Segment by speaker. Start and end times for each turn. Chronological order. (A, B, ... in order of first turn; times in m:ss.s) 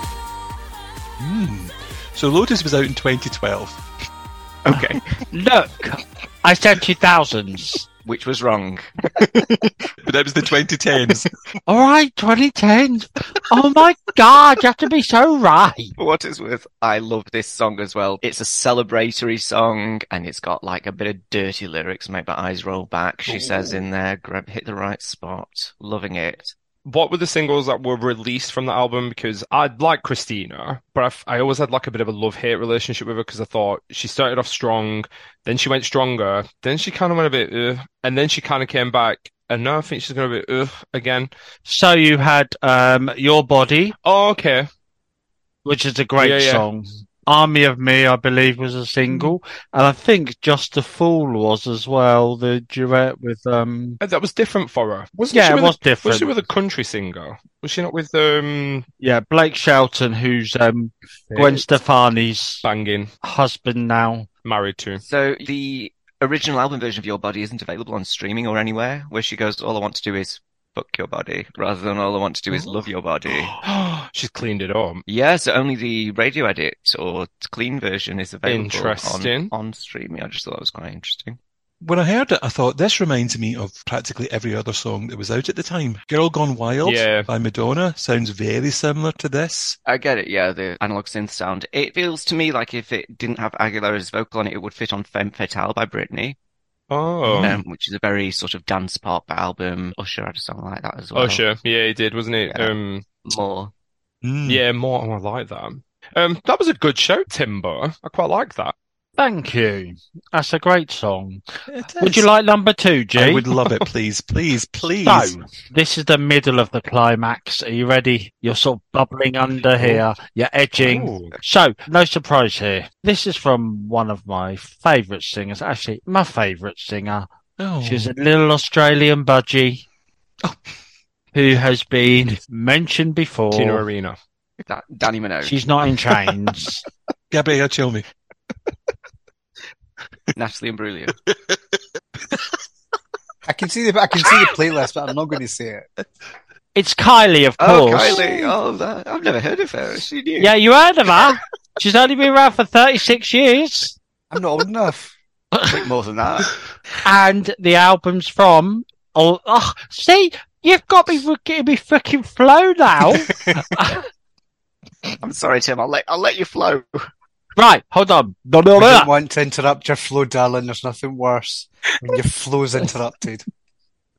0:01.2-0:03.8 A
0:04.6-0:05.0 B
0:05.3-0:07.9 C
0:08.0-0:08.9 B
0:10.0-0:11.3 A
0:11.7-0:16.0 C
0:16.0-0:26.5 B
0:23.3-0:23.8 A
0:26.8-0:41.3 D
0:41.7-0:44.0 C
0:44.0-0:44.7 D
0:45.6-0:54.0 C
0:46.2-0:46.7 D
0:54.0-0:58.9 D
0:55.3-0:56.3 C
0:59.0-1:02.6 C
1:01.3-1:01.7 D
1:02.6-1:03.1 D
1:03.2-1:04.3 C
1:04.4-1:05.0 D
1:05.0-1:13.6 B
1:13.6-1:15.0 D
1:15.1-1:21.4 B
1:18.5-1:19.5 D
1:21.8-1:29.8 A
1:26.8-1:27.3 D
1:29.9-1:36.4 B
1:36.9-1:37.6 D
1:37.2-1:37.6 A
1:37.4-1:41.4 B
1:41.2-1:43.0 D
1:42.5-1:42.7 B
1:43.2-1:43.7 B
1:44.2-1:44.6 A
1:44.5-1:48.8 D
1:49.2-1:51.4 C
1:51.7-1:52.3 A
1:52.0-1:53.5 C
1:53.2-1:55.4 A
1:55.0-2:07.3 C
2:00.8-2:01.4 D
2:07.6-2:08.1 A
2:07.8-2:09.8 C
2:11.3-2:13.8 C
2:13.5-2:14.2 D
2:14.7-2:15.6 B
2:15.4-2:16.8 C
2:17.3-2:18.0 A
2:20.4-2:21.1 B
2:21.3-2:21.6 A
2:23.5-2:25.9 E
2:26.8-2:28.5 C
2:27.6-2:30.5 B
2:30.4-2:34.0 C
2:34.3-2:35.1 E
2:35.5-2:35.8 C
2:35.7-2:36.6 B
2:37.0-2:44.0 C
2:45.2-2:47.1 B
2:47.6-2:49.1 C
2:48.8-2:53.4 E